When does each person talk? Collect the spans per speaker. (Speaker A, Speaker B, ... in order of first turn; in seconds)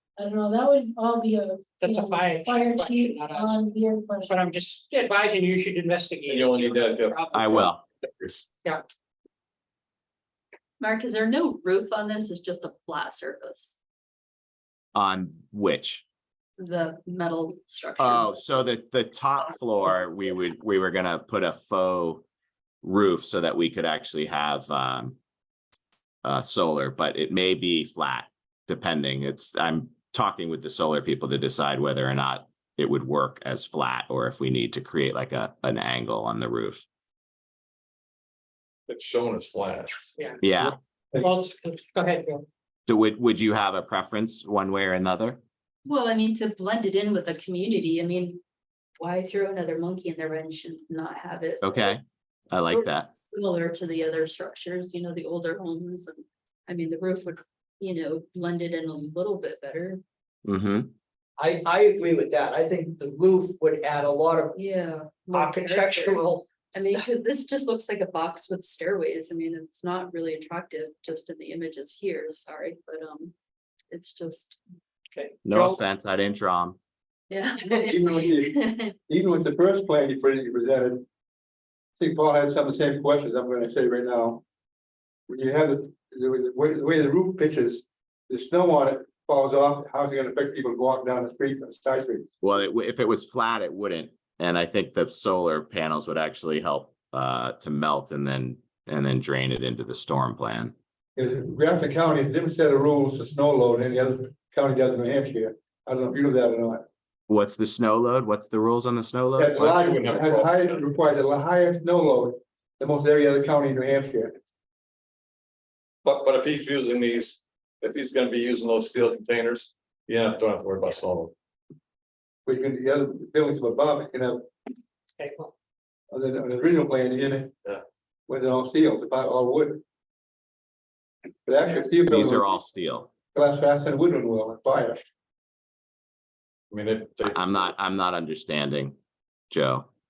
Speaker A: 0.2-4.3
Speaker B: 1.8-3.6, 4.2-7.6, 41.2-42.5, 65.9-66.3, 75.1-75.8, 125.2-125.5
Speaker C: 6.3-8.4, 38.9-40.1, 109.5-110.9, 116.0-121.3, 136.7-137.4
Speaker D: 7.3-7.8, 14.9-16.0, 18.0-22.2, 22.8-25.2, 26.2-36.9, 40.4-40.8, 42.9-45.4, 51.6-53.1, 60.5-60.9, 75.4-76.8, 92.4-100.7, 107.3-109.6, 132.1-133.1, 137.2-138.9, 139.5-139.9
Speaker E: 10.8-13.8, 16.6-18.4, 45.8-48.4, 49.0-51.9, 52.5-60.0, 64.5-66.2, 66.7-73.3, 73.9-74.6, 77.3-78.9
Speaker F: 40.5-41.3, 77.9-81.0, 82.0-84.4, 85.3-92.3, 101.2-106.8, 109.4-114.3, 122.5-124.5, 126.1-127.5, 128.3-129.8, 131.4-132.5, 133.3-135.0
Speaker G: 61.4-64.6, 65.3-67.0